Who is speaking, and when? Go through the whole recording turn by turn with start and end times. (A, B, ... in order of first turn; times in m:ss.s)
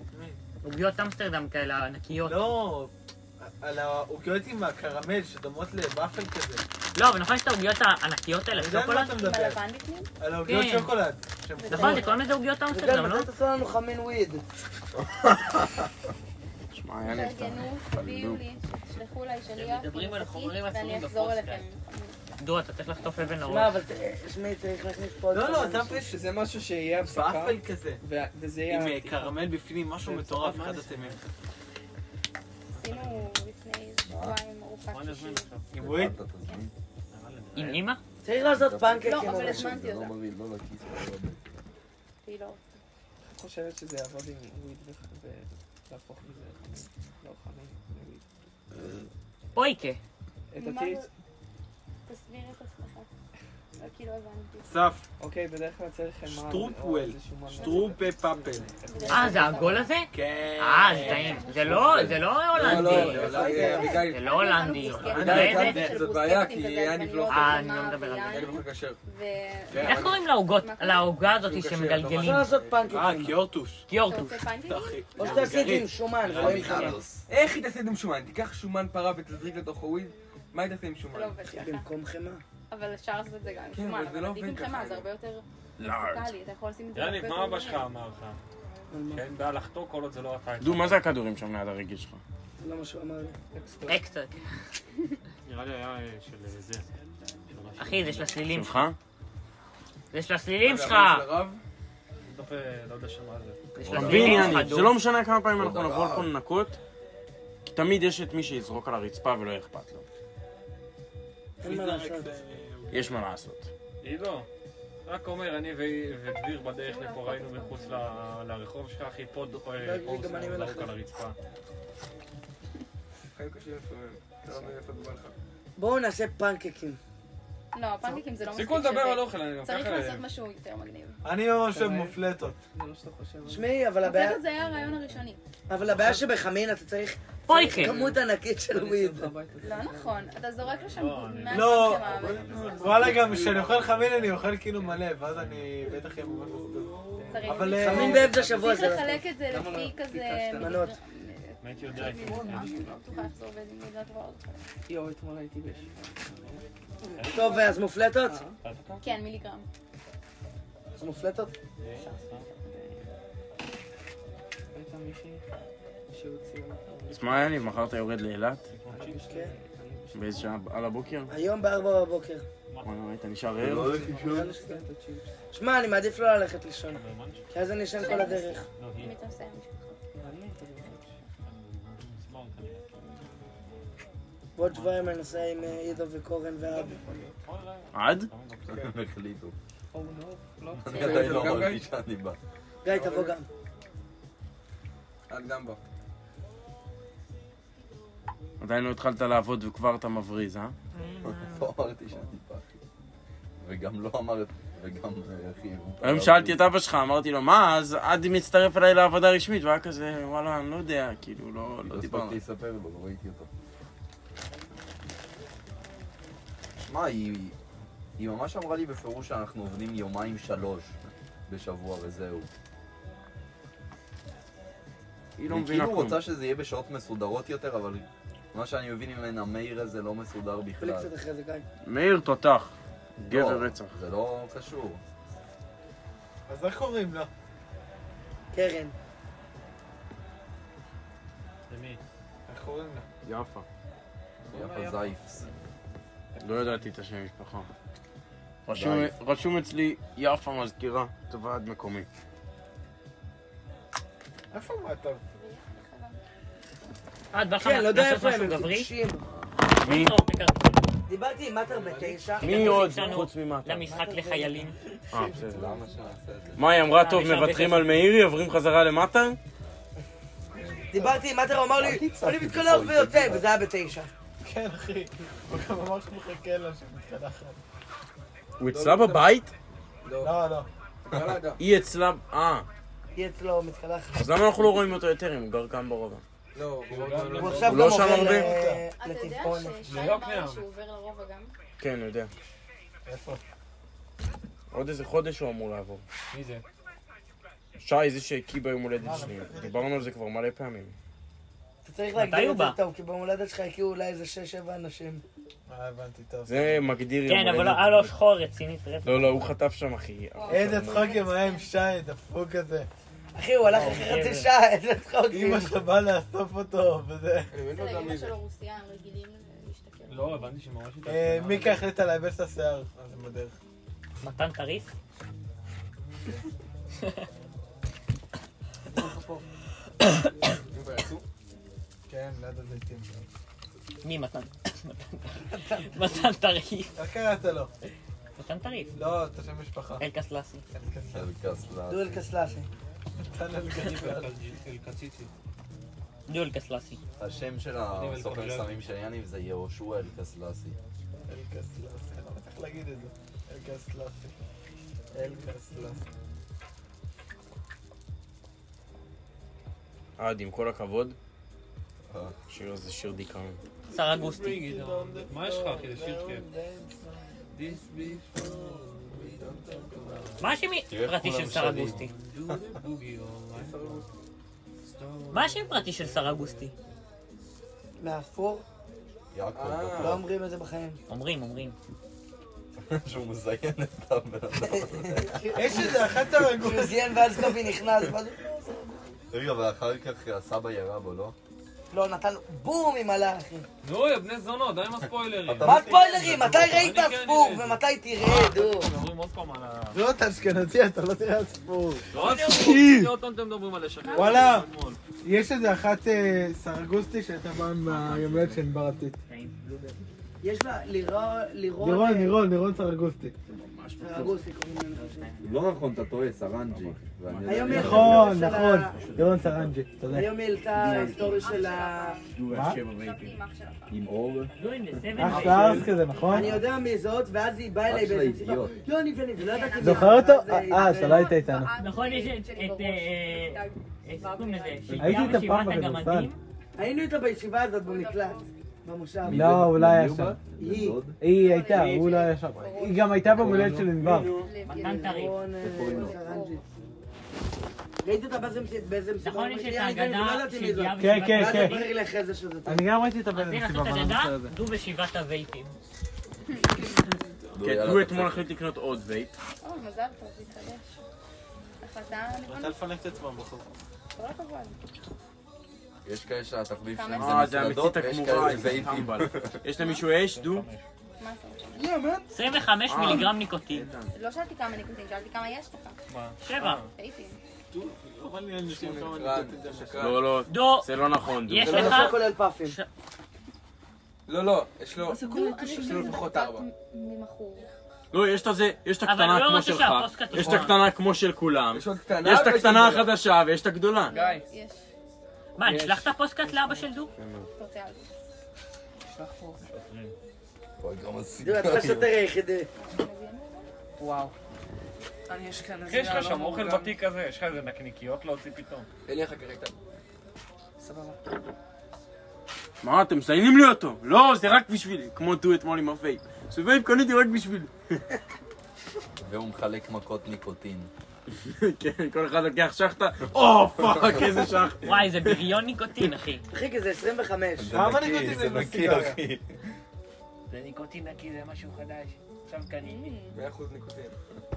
0:00.1-0:00.4 A
0:00.6-0:02.6 B
0:02.2-0:06.6 A
0:07.0-0:09.2 B
0:08.5-0:09.6 A
0:09.1-0:10.1 C
0:10.2-0:12.1 A
0:10.4-0:11.0 B
0:11.6-0:12.3 C
0:11.6-0:13.3 B
0:12.7-0:14.4 D
0:15.2-0:15.8 E
0:16.7-0:18.4 F
0:17.0-0:22.2 C
0:19.5-0:21.7 B
0:22.4-0:23.8 B
0:23.4-0:26.0 D
0:25.3-0:26.2 A
0:26.0-0:30.8 G
0:27.0-0:28.0 A
0:28.7-0:31.2 A
0:30.4-0:31.2 H
0:32.7-0:33.3 H
0:32.7-0:35.5 C
0:34.0-0:34.4 E
0:34.9-0:35.7 H
0:35.7-0:36.2 A
0:35.8-0:36.7 E
0:37.1-0:37.9 H
0:37.6-0:38.0 B
0:38.2-0:39.8 D
0:38.5-0:41.6 E
0:39.0-0:40.2 C
0:42.2-0:42.6 C
0:43.3-0:48.2 G
0:49.5-0:50.0 B
0:50.5-0:51.1 G
0:50.6-0:51.1 C
0:52.0-0:53.1 C
0:53.8-0:54.7 C
0:54.7-0:55.0 A
0:55.2-0:59.4 G
0:56.2-0:58.7 A
0:57.5-0:58.1 C
0:58.8-1:00.0 C
0:59.1-1:03.4 B
1:00.1-1:02.1 A
1:00.9-1:02.2 C
1:01.8-1:04.3 I
1:02.7-1:04.0 D
1:02.8-1:04.0 A
1:03.2-1:11.2 C
1:03.9-1:05.9 B
1:05.0-1:06.0 A
1:05.1-1:07.7 I
1:07.3-1:08.5 B
1:08.2-1:09.0 I
1:09.7-1:10.2 I
1:09.8-1:12.5 B
1:11.3-1:13.1 I
1:12.2-1:13.4 D
1:12.9-1:13.9 A
1:13.9-1:14.5 B
1:13.9-1:15.5 C
1:14.6-1:15.9 A
1:15.2-1:17.0 D
1:16.2-1:16.9 H
1:16.3-1:17.2 E
1:17.3-1:21.4 I
1:21.1-1:21.9 C
1:21.5-1:22.4 D
1:22.7-1:27.9 C
1:23.7-1:25.1 I
1:25.8-1:26.3 F
1:26.9-1:28.4 H
1:28.9-1:29.2 D
1:29.1-1:31.0 H
1:30.6-1:32.2 F
1:32.6-1:33.3 D
1:33.5-1:34.0 G
1:33.8-1:34.4 B
1:35.4-1:36.9 H
1:37.5-1:38.3 H
1:37.8-1:38.9 B
1:38.4-1:39.0 F
1:40.1-1:41.3 B
1:40.6-1:41.6 I
1:42.2-1:43.6 H
1:43.7-1:45.0 B
1:43.8-1:44.7 E
1:43.9-1:46.8 F
1:45.5-1:46.3 E
1:47.7-1:50.0 F
1:51.6-1:52.3 D
1:51.6-1:53.1 A
1:52.9-1:53.7 F
1:54.0-1:54.5 H
1:55.0-2:01.4 H
1:56.8-1:58.2 C
1:59.8-2:00.9 D
2:03.3-2:05.3 I
2:05.8-2:07.0 D
2:07.7-2:11.2 C
2:08.5-2:10.2 H
2:11.2-2:12.6 A
2:11.5-2:13.7 G
2:13.4-2:14.4 D
2:14.0-2:15.4 C
2:14.7-2:15.0 H
2:15.7-2:19.3 D
2:17.5-2:18.0 B
2:18.7-2:20.3 G
2:19.6-2:23.0 C
2:20.8-2:25.6 H
2:21.5-2:22.0 A
2:22.4-2:23.1 G
2:22.8-2:28.4 A
2:27.1-2:30.8 G
2:27.3-2:34.6 C
2:27.7-2:29.2 D
2:30.6-2:30.9 D
2:31.6-2:32.8 H
2:32.0-2:33.0 G
2:34.9-2:36.6 G
2:37.2-2:37.6 H
2:37.3-2:38.4 D
2:38.2-2:38.6 G
2:38.6-2:39.0 H
2:39.0-2:39.7 C
2:41.0-2:41.5 D
2:41.8-2:42.5 H
2:42.6-2:43.1 G
2:44.7-2:45.4 G
2:46.1-2:47.6 G
2:47.1-2:48.7 F
2:48.7-2:49.2 H
2:48.9-2:50.5 G
2:49.2-2:49.5 D
2:50.1-2:51.3 F
2:51.3-2:52.4 D
2:52.8-2:54.0 F
2:53.6-2:54.5 E
2:53.8-2:55.3 G
2:54.2-2:54.8 D
2:55.5-2:58.6 D
2:56.9-2:57.4 H
2:58.0-3:00.0 C
2:58.7-2:59.2 H
3:00.1-3:01.1 G
3:01.4-3:03.1 H
3:04.6-3:07.0 D
3:04.6-3:05.8 H
3:06.7-3:07.3 G
3:07.4-3:08.9 H
3:07.9-3:08.3 F
3:08.7-3:09.5 E
3:09.9-3:11.5 G
3:10.8-3:12.4 E
3:10.9-3:11.3 C
3:11.0-3:11.8 I
3:12.8-3:13.4 D
3:12.9-3:13.3 I
3:15.3-3:15.8 I
3:18.6-3:20.7 F
3:21.2-3:22.7 E
3:23.6-3:26.6 E
3:26.0-3:32.4 F
3:31.9-3:33.5 E
3:36.8-3:37.6 E
3:38.2-3:42.5 E
3:45.4-3:46.2 F
3:45.5-3:51.1 E
3:50.8-3:51.6 D
3:51.8-3:53.9 F
3:53.2-3:55.0 E
3:56.5-3:57.3 A
3:58.5-3:58.9 D
4:01.7-4:02.0 H
4:02.5-4:03.0 A
4:03.2-4:03.6 F
4:04.4-4:05.5 H
4:04.5-4:05.5 E
4:06.4-4:06.8 H
4:06.4-4:07.7 F
4:08.6-4:12.1 F
4:08.7-4:09.1 E
4:14.5-4:15.2 A
4:15.3-4:16.2 C
4:17.3-4:18.9 B
4:17.6-4:19.2 D
4:19.7-4:20.8 B
4:19.8-4:20.2 F
4:21.1-4:23.0 D
4:21.7-4:22.3 I
4:22.4-4:24.8 B
4:22.4-4:23.9 F
4:23.9-4:24.7 D
4:25.1-4:25.6 F
4:25.3-4:26.6 E
4:26.6-4:29.4 F
4:26.9-4:27.9 B
4:30.6-4:31.2 E
4:30.9-4:34.1 D
4:31.8-4:33.5 E
4:34.4-4:37.6 A
4:38.6-4:39.5 F
4:38.7-4:39.3 I
4:40.0-4:40.4 I
4:40.2-4:40.7 A
4:41.0-4:41.6 I
4:41.6-4:42.6 F
4:43.1-4:44.2 D
4:44.1-4:46.2 F
4:46.5-4:47.8 I
4:46.9-4:48.2 H
4:47.1-4:48.8 A
4:47.4-4:49.8 D
4:47.7-4:48.5 F
4:48.9-4:51.5 C
4:49.8-4:50.6 H
4:51.8-4:52.3 F
4:53.0-4:53.4 A
4:54.7-4:56.0 F
4:56.3-4:56.6 H
4:57.8-5:00.9 F
4:59.0-5:00.0 A
5:01.8-5:05.2 D
5:02.2-5:02.8 B
5:05.7-5:06.8 A
5:06.5-5:08.1 F
5:07.2-5:09.5 B
5:09.0-5:11.2 F
5:10.3-5:11.7 C
5:10.5-5:12.9 A
5:13.3-5:15.8 D
5:13.7-5:14.5 B
5:15.3-5:17.5 A
5:17.5-5:18.4 I
5:17.7-5:20.5 C
5:20.1-5:21.9 H
5:21.0-5:23.6 A
5:24.2-5:24.9 B
5:28.9-5:29.4 A
5:30.7-5:31.2 I
5:32.1-5:33.2 A
5:34.0-5:37.0 B
5:35.5-5:35.8 D
5:37.0-5:37.7 A
5:38.4-5:38.9 B
5:38.9-5:40.0 A
5:40.0-5:40.6 B
5:40.7-5:41.3 A
5:41.1-5:42.2 E
5:41.9-5:42.7 D
5:43.2-5:44.4 A
5:43.8-5:45.3 H
5:46.3-5:47.0 B
5:47.2-5:50.8 E
5:47.9-5:48.8 H
5:51.3-5:54.3 A
5:55.1-5:56.0 A
6:00.2-6:01.2 F
6:02.1-6:02.3 E
6:02.5-6:03.6 F
6:03.9-6:04.6 B
6:04.0-6:10.4 A
6:04.3-6:06.5 H
6:07.5-6:08.3 H
6:09.2-6:10.2 I
6:10.4-6:12.1 B
6:10.9-6:12.0 E
6:11.5-6:14.0 H
6:13.5-6:14.0 I
6:14.9-6:16.7 H
6:15.3-6:16.7 B
6:18.0-6:18.6 D
6:19.3-6:20.2 E
6:19.5-6:20.2 I
6:20.0-6:21.0 D
6:21.1-6:21.8 B
6:22.8-6:26.1 E
6:24.6-6:28.8 D
6:25.5-6:27.2 A
6:29.3-6:31.3 E
6:31.9-6:33.6 D
6:33.8-6:40.0 H
6:35.4-6:35.9 E
6:35.5-6:36.8 A
6:35.6-6:38.9 D
6:39.9-6:43.0 A
6:42.1-6:45.0 H
6:44.0-6:44.5 C
6:44.2-6:44.7 A
6:45.2-6:49.2 A
6:47.8-6:48.6 F
6:49.3-6:50.0 B
6:50.4-6:52.4 D
6:51.8-6:53.3 A
6:53.5-6:54.4 F
6:54.0-6:55.3 D
6:54.9-6:55.7 B
6:55.4-6:58.4 E
6:56.7-6:59.7 F
6:57.5-6:58.9 D
6:57.7-7:00.4 A
7:00.1-7:02.2 D
7:00.8-7:01.6 F
7:00.8-7:04.0 C
7:02.3-7:03.4 F
7:02.5-7:02.8 A
7:03.9-7:05.9 E
7:04.5-7:05.9 B
7:05.2-7:06.5 A
7:05.3-7:05.9 F
7:06.1-7:06.4 C
7:06.3-7:11.3 D
7:07.9-7:08.7 E
7:09.4-7:15.4 C
7:09.8-7:11.7 A
7:11.8-7:16.4 B
7:15.0-7:16.3 A
7:16.8-7:19.4 D
7:17.8-7:18.5 C
7:19.2-7:21.2 E
7:19.3-7:20.4 A
7:20.6-7:21.0 D
7:21.2-7:24.3 A
7:21.3-7:26.6 C
7:23.4-7:23.9 E
7:23.4-7:24.5 F
7:24.6-7:25.4 B
7:24.8-7:26.6 D
7:25.6-7:26.2 E
7:28.0-7:32.8 D
7:29.2-7:31.9 B
7:31.0-7:31.8 A
7:32.6-7:34.5 A
7:33.3-7:35.8 B
7:37.5-7:38.5 E
7:37.6-7:39.3 F
7:39.6-7:40.9 C
7:41.8-7:42.8 C
7:42.4-7:43.6 A
7:44.1-7:44.8 C
7:46.0-7:49.6 E
7:46.9-7:47.4 C
7:47.2-7:50.7 F
7:49.8-7:50.0 C
7:50.2-7:50.8 H
7:51.2-7:51.9 C
7:51.7-7:52.3 I
7:52.3-7:53.9 B
7:52.8-7:54.1 F
7:54.1-7:56.0 C
7:56.1-7:56.9 H
7:56.4-7:56.8 B
7:56.9-7:57.4 C
7:57.7-8:00.2 A
7:58.6-8:00.3 I
8:00.0-8:02.1 F
8:00.5-8:00.9 B
8:01.4-8:02.9 B
8:01.6-8:02.1 I
8:01.6-8:02.8 D
8:04.3-8:05.2 I
8:05.0-8:06.3 G
8:05.2-8:07.7 C
8:05.8-8:06.7 I
8:08.1-8:14.2 F
8:09.0-8:10.8 B
8:10.4-8:10.7 I
8:11.7-8:13.1 I
8:14.1-8:14.8 C
8:14.1-8:14.5 G
8:15.6-8:17.1 B
8:15.6-8:16.9 G
8:17.2-8:17.5 F
8:17.5-8:18.1 C
8:19.0-8:19.6 G
8:19.7-8:20.1 H
8:20.8-8:22.1 E
8:21.4-8:22.7 D
8:22.8-8:23.7 C
8:24.0-8:24.3 G
8:25.3-8:27.0 G
8:25.8-8:28.9 H
8:29.0-8:29.7 I
8:30.8-8:31.2 G
8:32.8-8:38.0 F
8:39.2-8:40.9 E
8:41.3-8:45.5 F
8:43.8-8:44.5 E
8:44.8-8:46.4 B
8:46.5-8:47.7 D
8:47.6-8:49.5 E
8:47.7-8:49.2 A
8:50.5-8:53.1 B
8:52.7-8:53.4 C
8:53.3-8:54.2 I